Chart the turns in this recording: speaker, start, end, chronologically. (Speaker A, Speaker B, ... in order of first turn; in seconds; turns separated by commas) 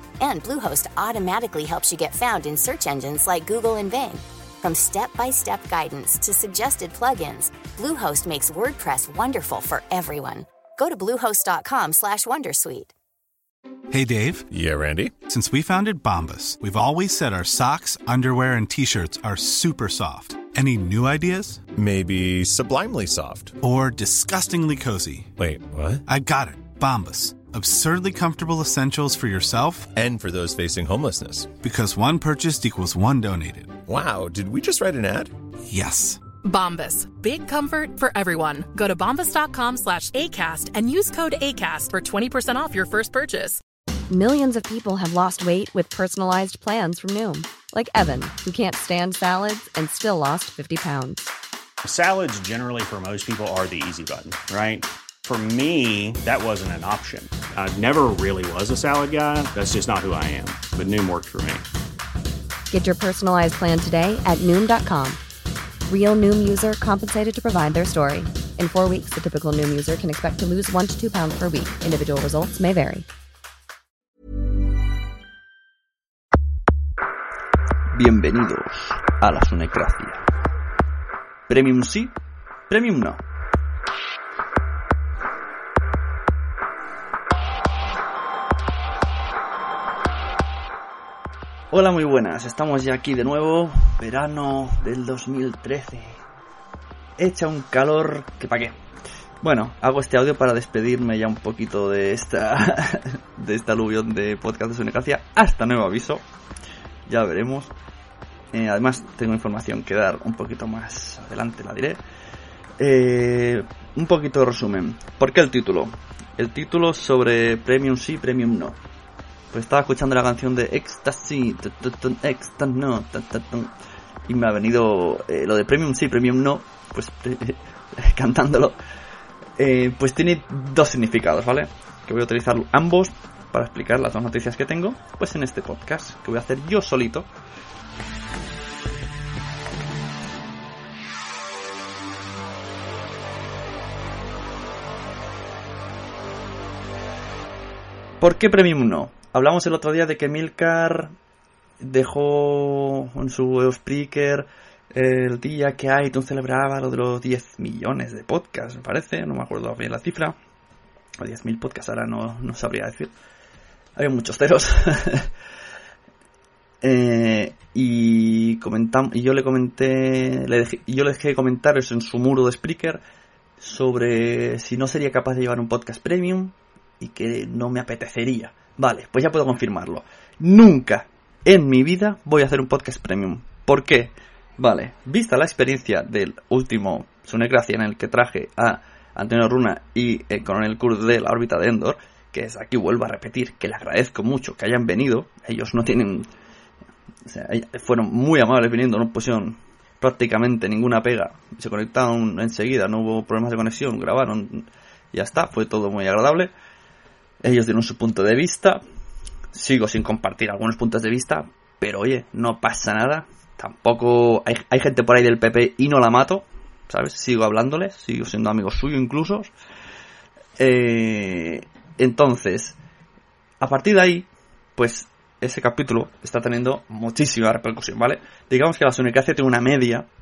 Speaker A: 0.2-12.9, Speaker B: 13.9-14.5, Speaker C: 14.5-15.2, Speaker B: 15.3-21.7, Speaker C: 21.8-23.6, Speaker B: 23.6-25.3, Speaker C: 25.4-26.0, Speaker B: 26.1-29.9, Speaker C: 29.9-31.5, Speaker B: 31.6-33.8, Speaker C: 33.9-35.3, Speaker B: 35.7-36.2, Speaker D: 36.4-43.6, Speaker E: 44.1-51.3, Speaker F: 51.8-61.7, Speaker E: 62.7-65.2, Speaker E: 65.9-73.1, Speaker G: 77.9-80.2, Speaker G: 81.5-82.1, Speaker G: 82.7-83.2, Speaker G: 91.7-96.2, Speaker G: 97.2-98.7, Speaker G: 99.4-106.2, Speaker G: 107.1-107.7, Speaker G: 108.5-112.0, Speaker G: 112.8-118.8, Speaker G: 119.5-123.7, Speaker G: 124.3-128.8, Speaker G: 129.6-137.3, Speaker G: 148.2-151.1, Speaker G: 151.8-160.4, Speaker G: 161.2-163.1, Speaker G: 164.0-165.3, Speaker G: 166.8-173.0, Speaker G: 173.6-196.3, Speaker G: 197.3-206.5, Speaker G: 207.4-208.8, Speaker G: 209.5-219.5, Speaker G: 220.6-222.8, Speaker G: 223.6-230.1